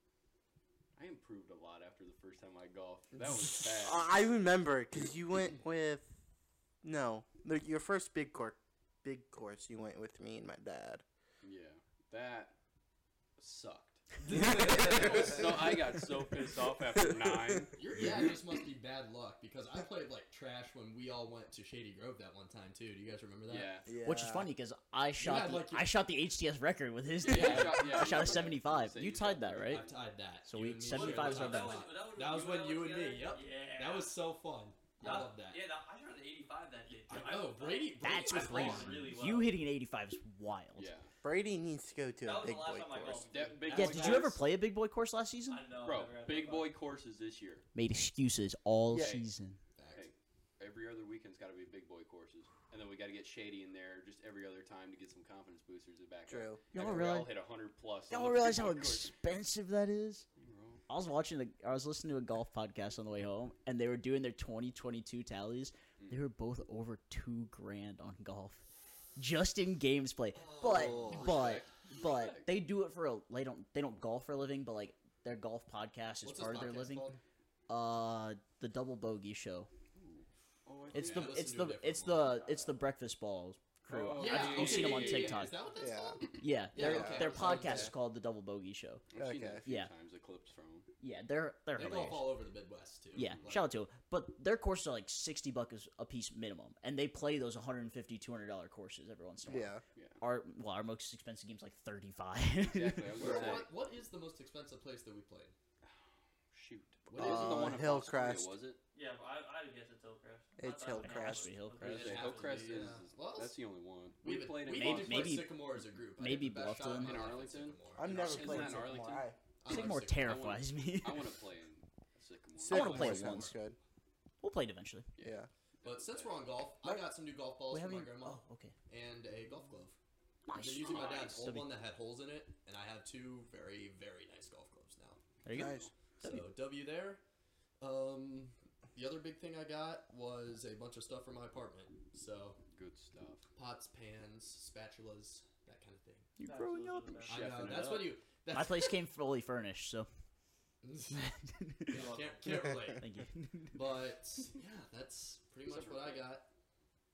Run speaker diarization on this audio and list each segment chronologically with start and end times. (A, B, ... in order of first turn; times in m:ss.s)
0:01.0-0:04.1 A
0:03.2-0:03.6 B
0:03.8-0:06.2 C
0:06.8-0:11.0 C
0:11.4-0:12.6 A
0:13.4-0:17.7 A
0:14.2-0:15.5 B
0:14.3-0:15.8 C
0:17.0-0:18.3 C
0:17.8-0:23.7 B
0:23.5-0:23.9 A
0:23.9-0:24.5 C
0:24.0-0:29.8 D
0:25.2-0:25.9 B
0:27.2-0:30.0 A
0:27.3-0:28.5 B
0:29.7-0:35.6 B
0:30.4-0:31.9 D
0:30.9-0:34.1 E
0:35.0-0:35.3 D
0:35.0-0:39.6 E
0:37.1-0:39.1 B
0:38.0-0:40.9 D
0:40.8-0:41.1 A
0:41.2-0:43.3 C
0:42.2-0:44.3 E
0:43.3-0:44.4 A
0:43.7-0:44.4 B
0:43.7-0:45.6 D
0:45.5-0:46.7 E
0:45.8-0:47.7 A
0:47.7-0:49.6 D
0:48.9-0:49.3 A
0:49.8-0:50.1 B
0:49.9-0:59.1 A
0:56.3-0:56.6 C
0:56.7-0:57.3 D
0:58.1-1:00.2 D
1:00.4-1:00.8 A
1:00.9-1:08.6 D
1:09.2-1:17.1 D
1:10.4-1:11.3 B
1:10.7-1:12.6 A
1:16.2-1:17.2 B
1:17.7-1:19.7 D
1:20.0-1:21.4 A
1:20.9-1:25.6 D
1:20.9-1:22.4 B
1:23.9-1:25.5 A
1:24.2-1:27.9 B
1:25.8-1:26.2 C
1:26.4-1:29.0 D
1:26.7-1:27.9 C
1:29.1-1:30.9 A
1:29.2-1:29.6 C
1:29.6-1:29.9 D
1:31.0-1:32.4 D
1:31.7-1:33.6 B
1:33.2-1:43.2 D
1:39.5-1:39.8 C
1:40.0-1:40.2 A
1:42.7-1:43.7 A
1:43.1-1:45.6 B
1:43.2-1:43.6 C
1:46.5-1:48.8 A
1:47.1-1:47.8 B
1:47.2-1:48.5 C
1:48.9-1:52.9 E
1:50.6-1:51.5 C
1:51.0-1:52.1 D
1:51.8-1:55.5 A
1:51.8-1:53.6 B
1:54.2-1:58.9 B
1:54.7-1:57.2 D
1:57.0-2:03.2 A
1:58.0-1:59.4 C
1:59.6-2:00.3 B
1:59.6-2:01.4 D
2:02.6-2:03.8 C
2:02.7-2:03.6 D
2:03.0-2:03.4 B
2:04.4-2:05.1 D
2:05.2-2:06.5 A
2:05.2-2:05.5 C
2:05.8-2:10.0 B
2:07.7-2:08.7 D
2:10.5-2:11.7 D
2:10.5-2:15.2 B
2:10.8-2:11.4 A
2:15.4-2:16.5 D
2:15.5-2:15.9 C
2:15.6-2:15.9 A
2:16.2-2:17.2 B
2:17.8-2:22.6 B
2:22.7-2:23.5 A
2:23.6-2:26.3 B
2:26.4-2:27.3 D
2:26.4-2:27.7 E
2:27.3-2:28.2 A
2:27.3-2:28.9 B
2:28.5-2:30.1 D
2:30.8-2:31.3 B
2:31.2-2:33.8 D
2:31.9-2:33.1 B
2:31.9-2:32.4 E
2:33.7-2:36.5 B
2:35.7-2:36.4 A